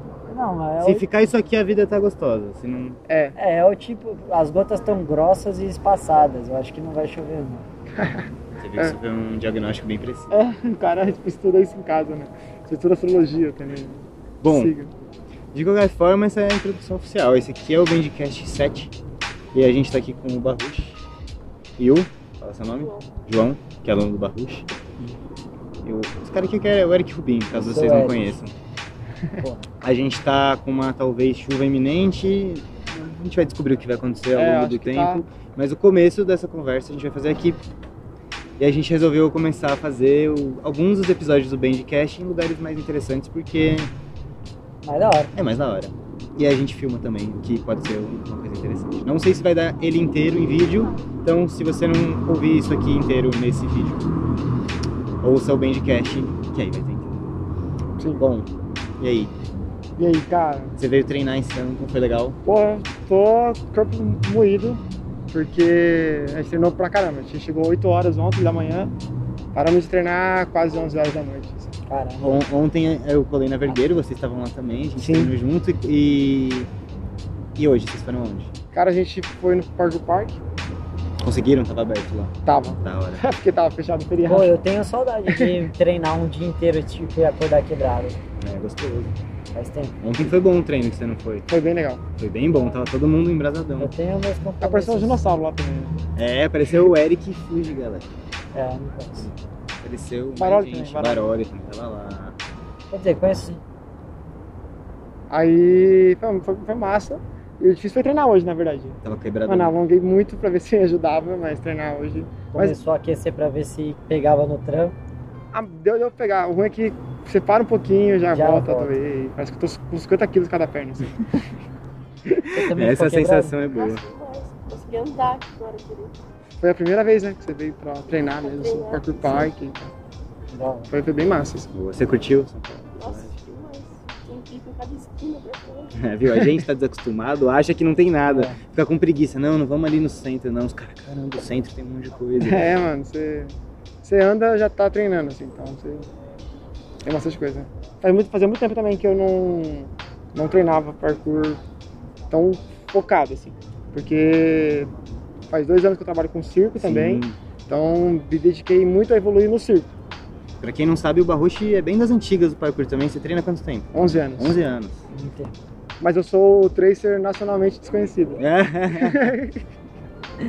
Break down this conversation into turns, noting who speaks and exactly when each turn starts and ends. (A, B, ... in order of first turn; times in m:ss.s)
0:00.3-0:01.1 A
0:00.8-0:03.0 B
0:03.1-0:03.4 C
0:03.4-0:07.6 A
0:08.0-0:08.3 C
0:08.6-0:10.4 B
0:10.3-0:14.9 C
0:14.4-0:14.8 B
0:15.5-0:18.9 B
0:19.5-0:21.0 B
0:21.8-0:24.7 B
0:25.8-0:28.5 B
0:27.6-0:28.4 A
0:29.4-0:29.7 A
0:29.8-0:37.6 B
0:34.3-0:35.2 C
0:38.6-0:43.9 B
0:44.8-0:45.3 A
0:45.3-0:54.0 B
0:55.2-0:57.2 B
0:58.2-0:59.3 B
1:00.0-1:00.7 C
1:00.8-1:02.4 B
1:02.4-1:09.0 C
1:09.5-1:11.7 C
1:11.9-1:12.4 A
1:12.2-1:16.7 B
1:15.0-1:15.3 C
1:17.6-1:18.5 B
1:18.7-1:20.4 C
1:21.2-1:23.2 B
1:22.4-1:24.6 C
1:24.2-1:28.2 A
1:25.3-1:25.6 C
1:28.4-1:29.1 B
1:29.5-1:30.0 A
1:30.0-1:31.5 B
1:31.5-1:32.0 C
1:32.2-1:33.9 B
1:33.8-1:35.4 A
1:34.6-1:36.0 C
1:36.2-1:38.1 B
1:38.5-1:39.3 A
1:39.8-1:42.4 B
1:40.4-1:41.3 C
1:42.9-1:43.6 A
1:45.3-1:52.8 C
1:49.0-1:49.7 B
1:52.5-1:55.0 A
1:55.5-2:01.4 C
1:58.3-1:58.9 A
2:02.4-2:04.0 B
2:02.5-2:03.5 A
2:03.7-2:06.2 D
2:06.6-2:09.9 C
2:08.3-2:09.5 D
2:10.5-2:10.9 A
2:10.9-2:11.7 C
2:11.7-2:13.3 B
2:13.0-2:15.9 D
2:15.9-2:22.8 B
2:18.2-2:18.6 A
2:22.4-2:26.1 C
2:27.0-2:31.6 C
2:32.3-2:34.9 C
2:35.5-2:39.9 C
2:36.8-2:37.4 B
2:40.6-2:45.0 B
2:43.9-2:44.6 C
2:45.1-2:45.5 A
2:46.0-2:49.6 C
2:48.4-2:49.3 B